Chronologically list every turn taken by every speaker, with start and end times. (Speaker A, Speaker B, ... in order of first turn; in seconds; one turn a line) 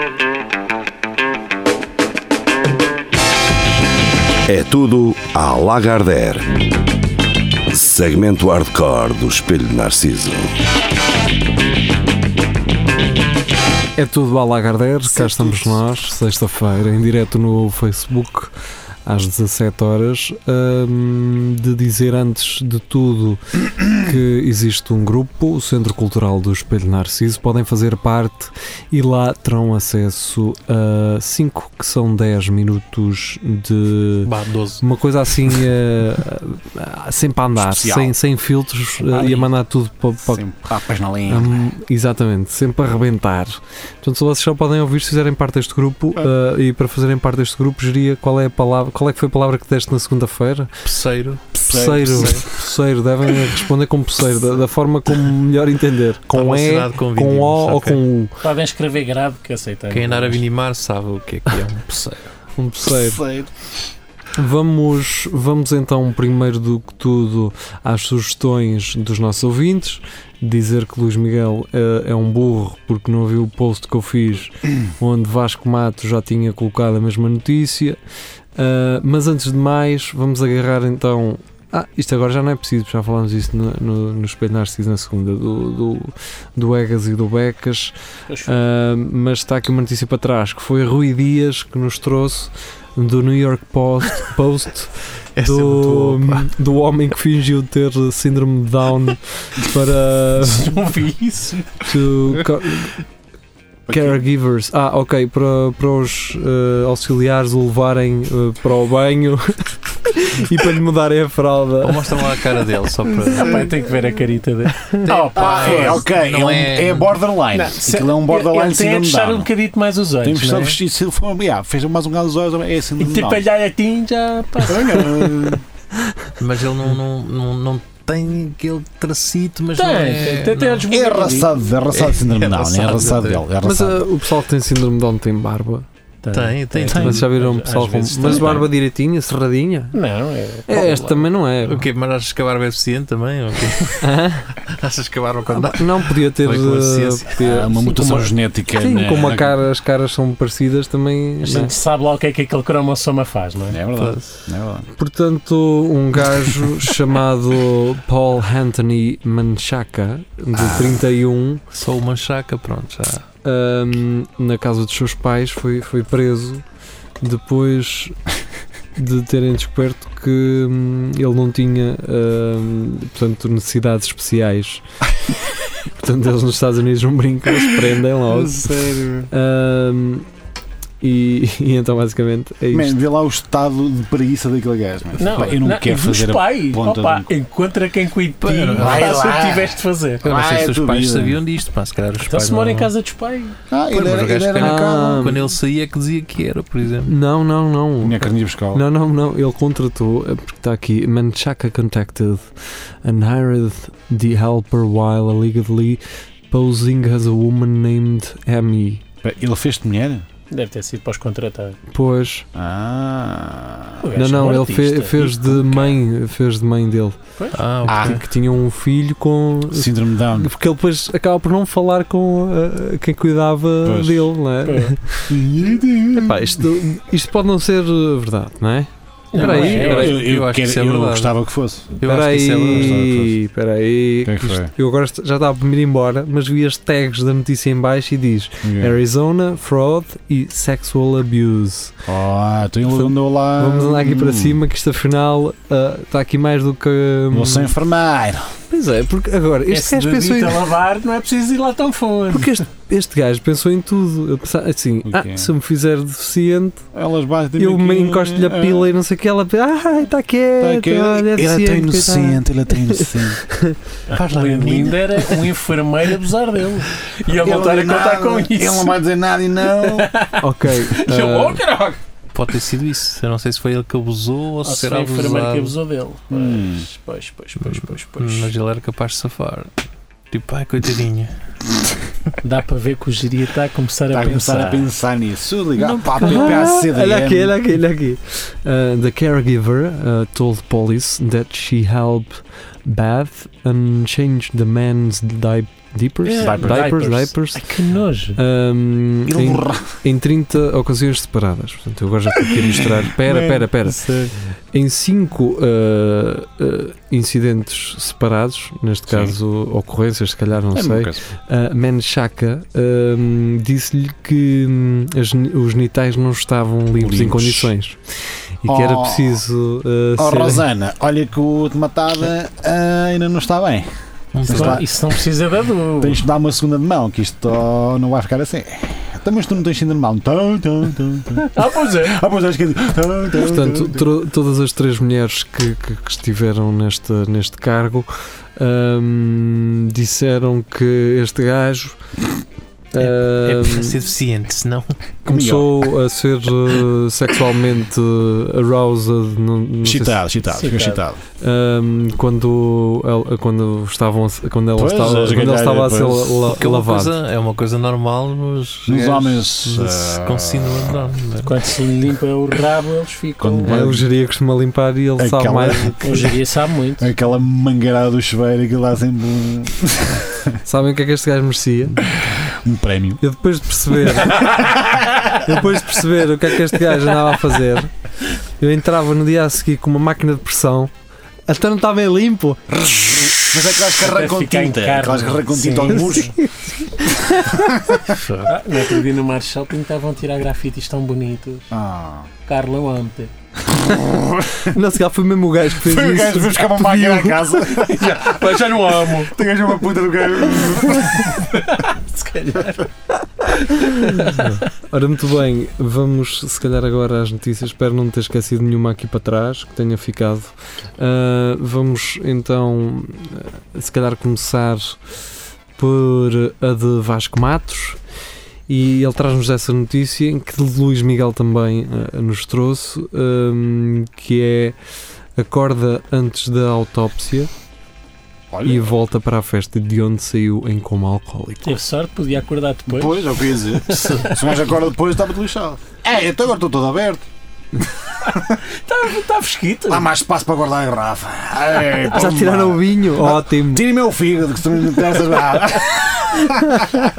Speaker A: 4.5-6.6
Speaker A: 7.7-10.6
Speaker B: 13.9-18.5
Speaker B: 19.0-40.5
Speaker C: 34.2-34.8
Speaker D: 37.5-38.1
Speaker C: 39.1-39.4
Speaker D: 40.3-41.7
Speaker B: 41.2-50.7
Speaker C: 50.8-52.4
Speaker D: 51.6-52.5
Speaker B: 51.6-58.4
Speaker C: 56.3-58.0
Speaker E: 58.4-60.4
Speaker C: 59.9-62.3
Speaker B: 62.5-63.2
Speaker D: 62.9-63.5
Speaker B: 64.3-78.0
Speaker B: 78.5-87.9
Speaker E: 88.3-88.6
Speaker B: 88.4-100.8
Speaker C: 95.3-96.5
Speaker E: 100.4-101.9
Speaker B: 101.8-103.0
Speaker D: 103.9-104.2
Speaker B: 103.9-112.2
Speaker C: 111.8-113.7
Speaker E: 113.3-116.0
Speaker C: 115.0-117.2
Speaker D: 115.3-119.5
Speaker E: 117.5-120.8
Speaker D: 120.2-123.4
Speaker E: 123.0-125.6
Speaker D: 124.7-125.6
Speaker C: 126.4-130.8
Speaker E: 129.8-131.5
Speaker D: 130.9-134.1
Speaker C: 131.9-133.4
Speaker B: 133.6-135.9
Speaker E: 136.2-138.7
Speaker C: 136.3-137.3
Speaker B: 136.9-140.0
Speaker E: 139.9-141.2
Speaker B: 140.7-141.9
Speaker C: 141.6-147.5
Speaker B: 144.0-144.6
Speaker B: 145.5-151.7
Speaker D: 147.4-149.6
Speaker E: 147.8-148.2
Speaker E: 151.4-153.8
Speaker D: 153.7-154.9
Speaker C: 153.9-154.4
Speaker B: 154.9-161.6
Speaker D: 160.5-161.0
Speaker C: 161.7-163.2
Speaker B: 163.4-166.6
Speaker B: 167.2-168.2
Speaker B: 168.9-174.8
Speaker B: 175.9-178.6
Speaker D: 178.3-179.3
Speaker B: 179.3-180.3
Speaker B: 181.0-183.0
Speaker D: 182.7-187.3
Speaker E: 185.2-190.4
Speaker C: 188.4-189.2
Speaker D: 188.7-191.4
Speaker C: 190.2-192.9
Speaker E: 192.2-193.6
Speaker D: 193.7-195.3
Speaker C: 193.9-197.1
Speaker B: 194.6-195.5
Speaker B: 197.0-202.5
Speaker D: 198.0-198.8
Speaker B: 203.0-209.0
Speaker D: 209.2-210.2
Speaker E: 210.5-211.8
Speaker B: 211.9-212.4
Speaker D: 212.5-214.1
Speaker E: 214.0-216.0
Speaker B: 214.1-217.2
Speaker E: 217.4-217.6
Speaker C: 217.5-218.2
Speaker D: 217.8-218.2
Speaker B: 217.9-225.4
Speaker D: 219.7-220.5
Speaker D: 223.8-224.3
Speaker E: 224.6-224.9
Speaker D: 225.3-226.7
Speaker B: 226.2-230.2
Speaker E: 229.3-230.1
Speaker C: 229.3-231.3
Speaker D: 229.8-232.0
Speaker C: 232.0-233.0
Speaker B: 232.0-242.0
Speaker D: 232.7-233.3
Speaker D: 234.2-234.7
Speaker D: 238.6-238.9
Speaker D: 242.1-244.6
Speaker B: 242.8-247.7
Speaker D: 247.3-248.5
Speaker B: 248.7-250.6
Speaker E: 249.7-252.5
Speaker B: 252.3-256.8
Speaker D: 255.0-255.5
Speaker D: 256.9-258.9
Speaker B: 257.6-263.8
Speaker D: 260.6-263.4
Speaker E: 264.1-268.9
Speaker C: 264.1-265.3
Speaker D: 267.3-270.1
Speaker E: 269.7-272.0
Speaker B: 270.4-271.6
Speaker C: 272.3-275.8
Speaker E: 274.6-278.5
Speaker D: 276.3-276.9
Speaker C: 277.6-279.7
Speaker C: 280.3-281.3
Speaker E: 282.4-284.9
Speaker D: 284.1-287.5
Speaker B: 286.1-297.7
Speaker E: 296.2-298.4
Speaker D: 296.4-296.9
Speaker B: 298.4-318.0
Speaker D: 299.3-300.0
Speaker D: 302.5-304.2
Speaker D: 309.1-309.4
Speaker D: 310.7-311.2
Speaker D: 317.0-317.7
Speaker B: 318.6-320.6
Speaker D: 318.6-319.4
Speaker D: 320.2-323.9
Speaker C: 324.3-324.8
Speaker D: 324.4-324.9
Speaker E: 324.4-326.2
Speaker D: 326.0-334.1
Speaker E: 331.4-332.2
Speaker B: 333.4-342.0
Speaker B: 342.9-344.0
Speaker C: 343.0-345.0
Speaker B: 345.2-350.3
Speaker D: 345.3-345.9
Speaker D: 349.8-351.2
Speaker E: 350.5-351.0
Speaker B: 351.4-357.1
Speaker D: 354.8-356.5
Speaker C: 356.5-361.6
Speaker D: 358.9-361.1
Speaker E: 361.4-363.7
Speaker D: 363.4-364.1
Speaker B: 363.6-366.3
Speaker D: 365.2-366.2
Speaker E: 366.0-367.1
Speaker D: 367.0-370.4
Speaker B: 370.6-372.0
Speaker D: 372.4-373.2
Speaker B: 373.2-377.9
Speaker B: 378.6-380.9
Speaker B: 381.5-382.9
Speaker D: 382.9-386.3
Speaker E: 383.8-386.2
Speaker B: 385.9-387.7
Speaker C: 388.1-388.5
Speaker E: 388.5-391.7
Speaker D: 391.7-392.3
Speaker E: 392.4-393.3
Speaker B: 394.5-397.6
Speaker D: 395.8-398.6
Speaker E: 397.7-399.4
Speaker D: 399.2-401.5
Speaker E: 401.4-402.9
Speaker E: 403.7-404.5
Speaker B: 403.8-415.0
Speaker B: 415.8-418.0
Speaker B: 418.7-424.8
Speaker B: 425.4-427.5
Speaker D: 428.5-428.9
Speaker B: 428.6-431.8
Speaker E: 431.6-434.4
Speaker D: 432.9-437.2
Speaker E: 438.4-440.1
Speaker D: 439.9-446.9
Speaker B: 442.1-443.9
Speaker B: 446.5-446.8